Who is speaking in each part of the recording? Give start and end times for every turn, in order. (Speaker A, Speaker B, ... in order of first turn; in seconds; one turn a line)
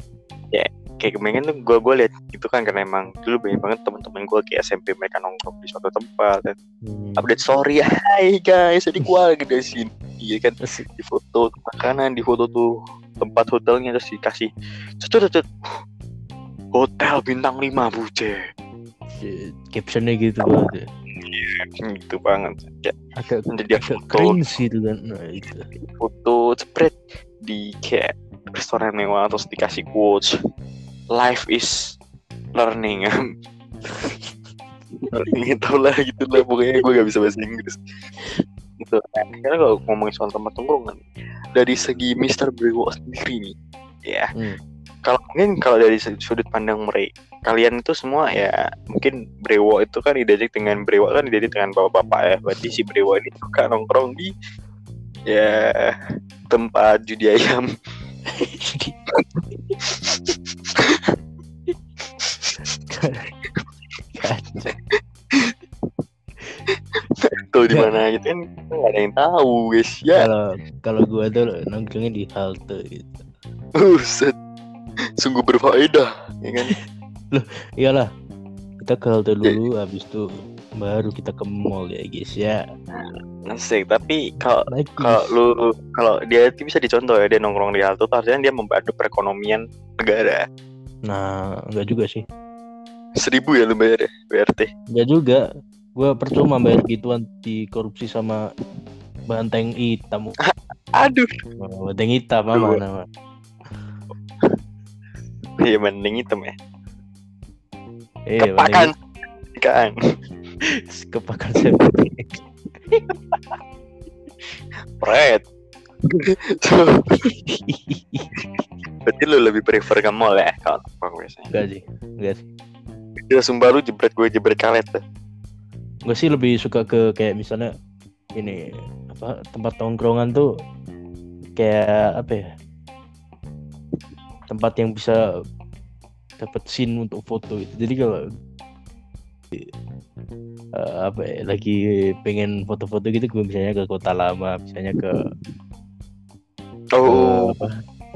Speaker A: 0.5-6.5
Speaker B: 6.8-7.2
Speaker A: 7.2-12.7
Speaker A: 13.2-14.5
Speaker A: 15.0-15.5
Speaker A: 16.7-18.4
Speaker B: 19.1-20.9
Speaker A: 20.4-22.9
Speaker B: 23.2-25.7
Speaker A: 23.5-24.4
Speaker A: 25.8-30.3
Speaker A: 31.1-31.9
Speaker A: 32.5-33.1
Speaker B: 33.9-34.3
Speaker A: 35.1-37.8
Speaker A: 38.8-41.0
Speaker A: 41.5-43.5
Speaker A: 45.0-54.3
Speaker A: 55.3-55.9
Speaker A: 56.5-57.7
Speaker B: 58.3-58.9
Speaker A: 59.8-61.1
Speaker B: 62.9-63.3
Speaker B: 64.2-64.8
Speaker A: 66.7-70.3
Speaker B: 70.1-73.2
Speaker A: 73.8-74.3
Speaker A: 75.2-76.7
Speaker B: 77.3-78.1
Speaker B: 78.8-80.2
Speaker B: 80.8-82.6
Speaker A: 82.9-90.4
Speaker B: 84.7-85.3
Speaker B: 91.1-92.2
Speaker A: 93.2-94.7
Speaker B: 94.9-95.4
Speaker B: 96.0-98.4
Speaker B: 99.3-100.3
Speaker A: 100.4-101.3
Speaker B: 101.6-103.0
Speaker A: 102.5-102.8
Speaker A: 105.6-106.5
Speaker B: 108.3-108.9
Speaker A: 108.4-108.9
Speaker A: 109.5-109.9
Speaker B: 110.9-112.4
Speaker A: 115.0-115.4
Speaker A: 116.2-117.2
Speaker B: 117.7-118.3
Speaker A: 119.0-121.5
Speaker B: 121.5-122.5
Speaker A: 123.3-125.0
Speaker B: 126.0-127.7
Speaker B: 128.3-130.4
Speaker B: 131.6-132.4
Speaker B: 134.5-135.2
Speaker B: 136.4-138.2
Speaker B: 140.8-145.2
Speaker A: 146.9-147.5
Speaker B: 147.1-147.7